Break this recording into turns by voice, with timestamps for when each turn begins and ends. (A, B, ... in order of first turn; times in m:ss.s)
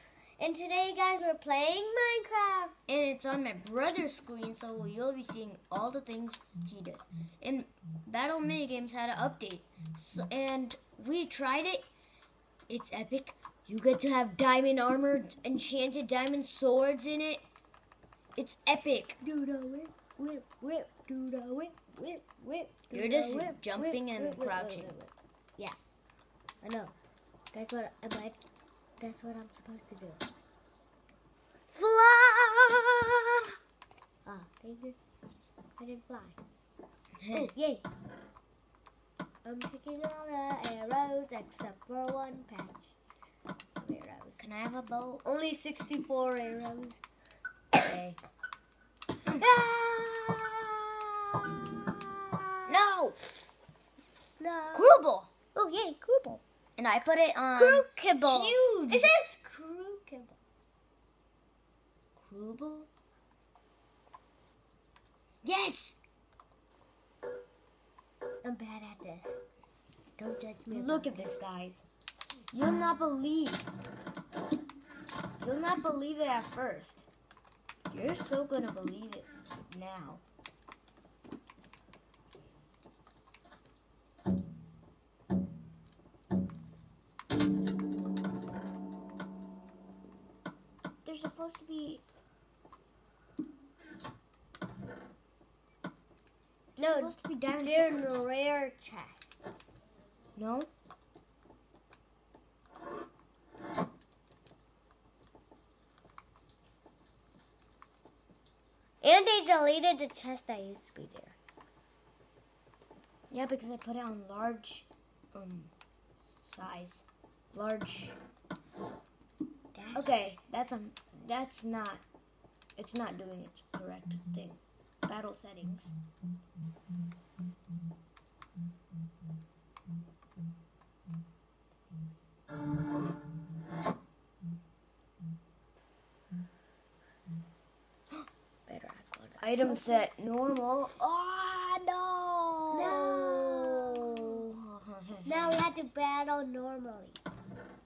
0:00.4-0:02.8 A
0:02.9-0:11.9 B
0:12.7-0:17.4 B
0:18.4-0:19.2 B
0:19.2-0:25.8 A
0:22.9-0:24.9 B
0:26.6-0:26.9 A
0:27.5-0:28.4 A
0:29.0-0:30.2 A
0:31.7-0:33.4 A
0:34.2-0:35.0 A
0:35.8-0:36.4 A
0:37.2-0:37.5 B
0:37.3-0:37.9 A
0:39.4-0:42.9 A
0:43.8-0:44.4 A
0:44.4-0:45.2 B
0:45.2-0:47.0 A
0:47.7-0:48.2 B
0:49.4-0:52.7 A
0:52.7-0:53.2 B
0:54.4-0:55.0 A
0:54.7-0:55.3 B
0:55.5-0:56.4 A
0:56.8-0:59.1 B
0:57.6-1:00.4 A
1:02.2-1:02.9 B
1:05.4-1:06.0 B
1:08.4-1:09.4 A
1:10.2-1:11.3 A
1:10.7-1:11.8 B
1:12.5-1:13.7 B
1:15.4-1:17.1 B
1:17.9-1:20.2 B
1:31.0-1:32.0 B
1:36.8-1:38.2 B
1:36.8-1:39.3 A
1:40.4-1:40.7 B
1:49.0-1:51.4 A
1:53.3-1:58.2 B
1:59.8-2:00.1 A
1:59.9-2:02.0 B
2:02.8-2:05.9 B
2:18.7-2:20.1 A
2:19.4-2:25.6 B
2:22.7-2:24.4 A
2:25.2-2:27.2 A